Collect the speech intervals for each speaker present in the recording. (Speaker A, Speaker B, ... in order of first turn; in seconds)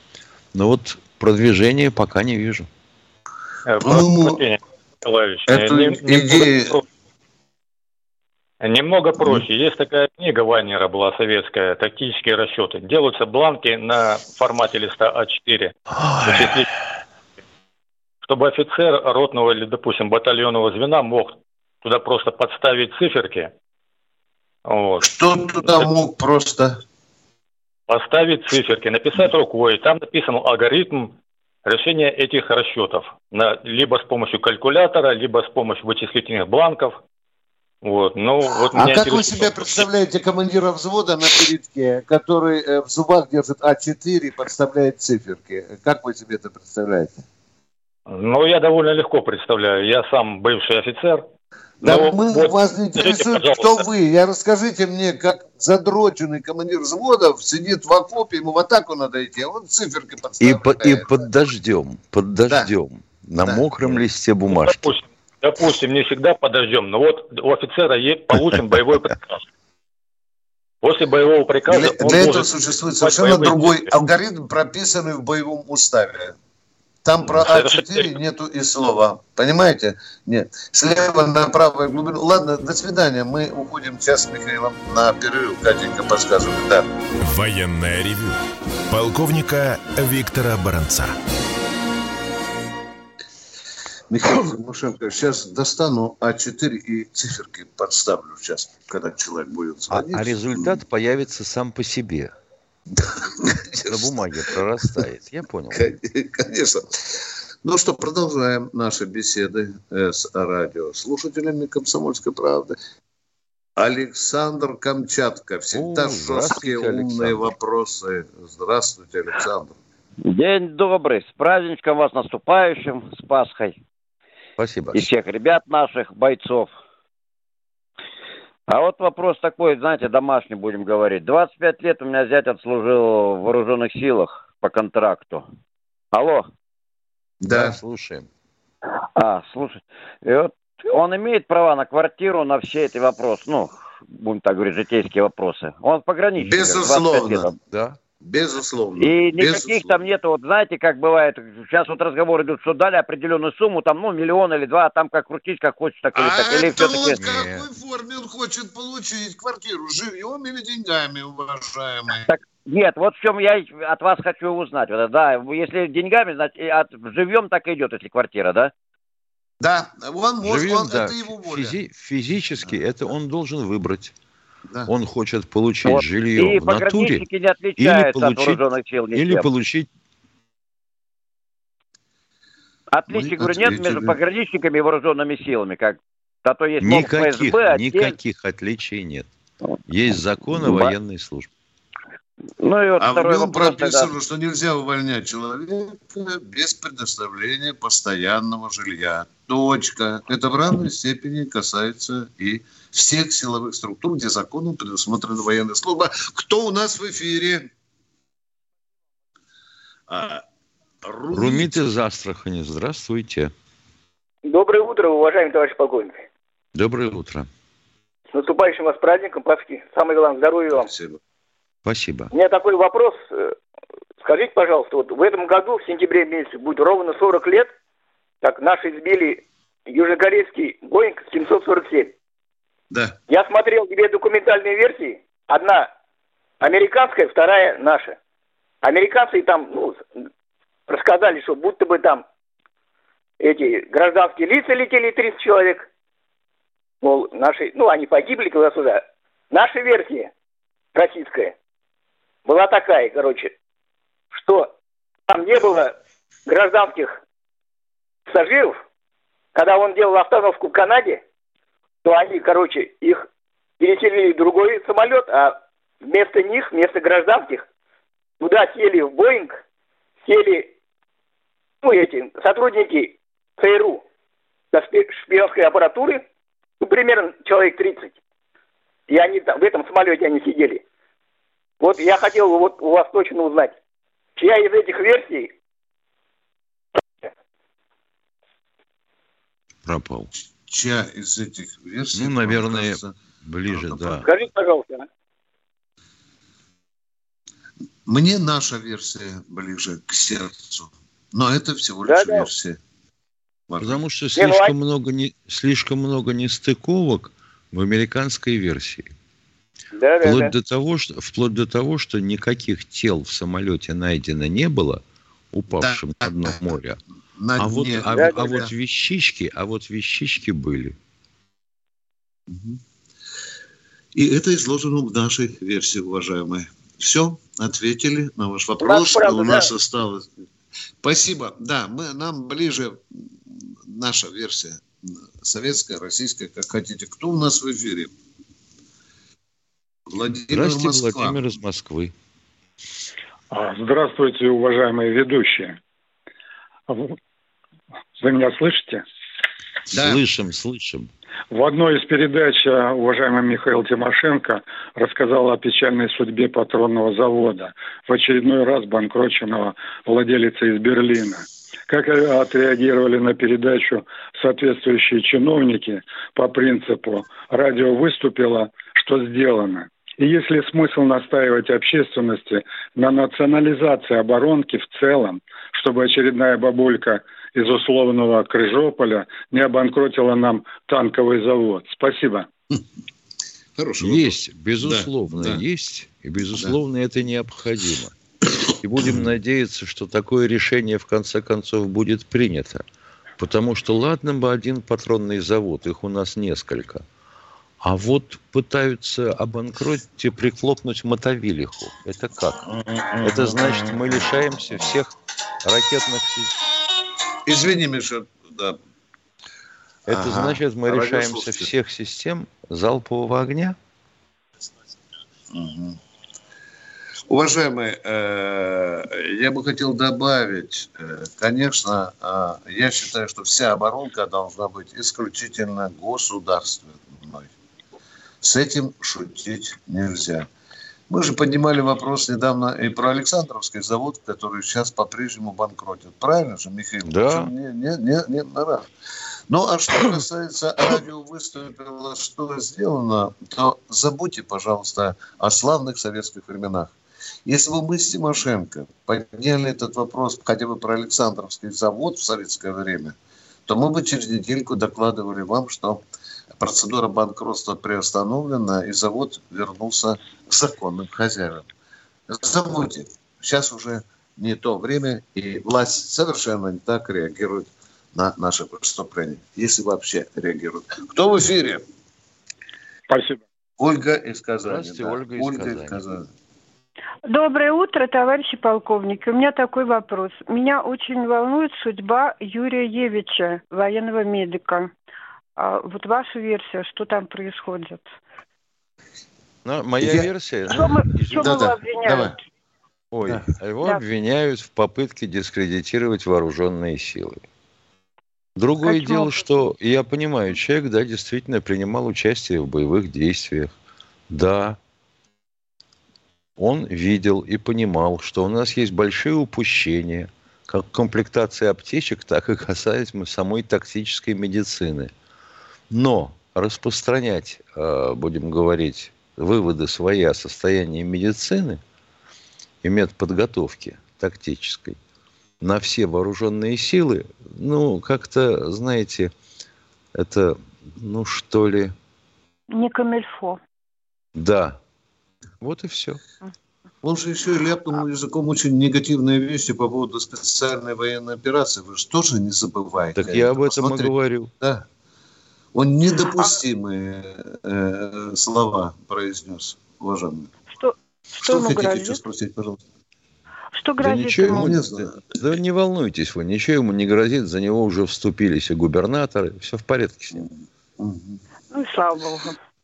Speaker A: 0.5-2.7, 60.4-64.9, 99.9-102.3, 103.9-105.9, 115.7-117.5, 124.6-125.1, 137.5-138.3, 147.7-148.0, 156.8-157.7, 170.4-174.1, 174.9-177.2, 177.8-178.6, 179.1-179.9, 186.8-189.3, 189.9-191.5, 211.3-213.5, 216.8-217.5, 221.8-222.3, 289.9-290.3, 292.1-294.3, 303.8-309.1, 310.2-315.0, 315.5-317.0, 317.6-320.9, 340.5-342.1, 349.9-351.1, 384.0-388.1, 388.8-392.8, 393.4-397.1, 397.8-402.7, 403.2-406.5, 410.1-413.8, 437.1-437.5, 474.7-476.0, 489.6-491.7, 493.1-497.4, 498.6-503.7, 504.3-504.8, 506.6-515.1, 515.9-521.8, 522.8-525.0, 525.6-529.3, 530.1-532.0, 534.4-534.8, 535.6-536.2, 543.2-544.5, 554.0-560.5
Speaker B: 3.7-6.8, 8.6-16.7, 18.3-23.5, 24.7-25.1, 27.9-31.1, 31.7-37.0, 37.8-39.9, 48.1-51.2, 51.8-53.8, 64.5-69.4, 70.8-74.0, 77.2-78.2
Speaker C: 3.8-4.4, 5.5-6.8, 9.2-9.4, 25.0-26.8, 38.7-47.2, 51.8-61.2, 63.4-64.0, 71.7-76.4, 77.0-86.9, 94.1-100.8, 103.0-104.2, 105.7-112.8, 113.8-119.8, 137.4-137.8, 146.4-147.5, 148.2-150.0, 156.2-162.3, 169.6-171.8, 183.1-184.1, 193.0-207.7, 210.1-210.4, 211.0-211.8, 220.7-221.2, 232.9-233.2, 290.7-293.1, 293.7-294.3, 298.1-302.8, 303.7-304.0, 315.7-316.6, 317.4-318.7, 322.5-322.8, 324.1-330.3, 331.0-338.1, 340.1-341.4, 349.9-350.2, 383.8-385.6, 402.9-404.9, 407.5-408.8, 410.1-411.7, 415.5-416.0, 417.3-427.5, 428.4-430.5, 431.1-438.9, 439.5-446.9, 447.5-453.2, 453.7-456.0, 456.6-461.7, 462.3-471.8, 473.8-476.3, 490.0-490.3, 491.4-492.3, 537.0-544.9, 545.7-550.5, 551.4-552.8, 554.5-555.2, 561.0-561.4
Speaker D: 87.2-88.4, 88.9-91.2
Speaker E: 120.3-123.8, 124.9-126.7, 128.7-135.5, 136.1-136.5, 139.2-147.6, 149.0-157.2, 162.3-168.7, 175.8-179.5, 182.9-188.2, 190.6-190.9, 192.6-194.1
Speaker F: 214.5-216.2, 218.3-220.9, 222.3-223.6, 224.2-227.7, 228.4-232.1, 233.3-235.9, 236.6-238.2, 238.8-240.1, 240.9-242.2, 243.4-245.9, 247.0-250.3, 250.9-251.5, 252.5-253.5, 254.3-254.7, 255.3-255.9, 256.5-257.1, 258.3-258.8, 259.6-261.2, 262.1-263.2, 263.8-267.6, 268.4-269.6, 270.2-270.7, 271.8-274.0, 274.7-276.2, 276.8-278.1, 279.1-280.8, 281.8-283.7, 284.4-285.5, 294.2-295.1, 302.1-302.5, 304.4-304.7, 309.9-310.5, 318.1-318.5, 328.8-329.7
Speaker G: 343.5-345.8, 346.9-347.2, 348.2-349.0, 351.5-382.5, 473.1-473.4
Speaker H: 477.3-484.9, 485.6-488.1, 490.7-492.4, 498.8-499.5, 532.7-533.6, 546.3-546.6, 550.7-552.2, 553.7-554.8, 561.7-562.6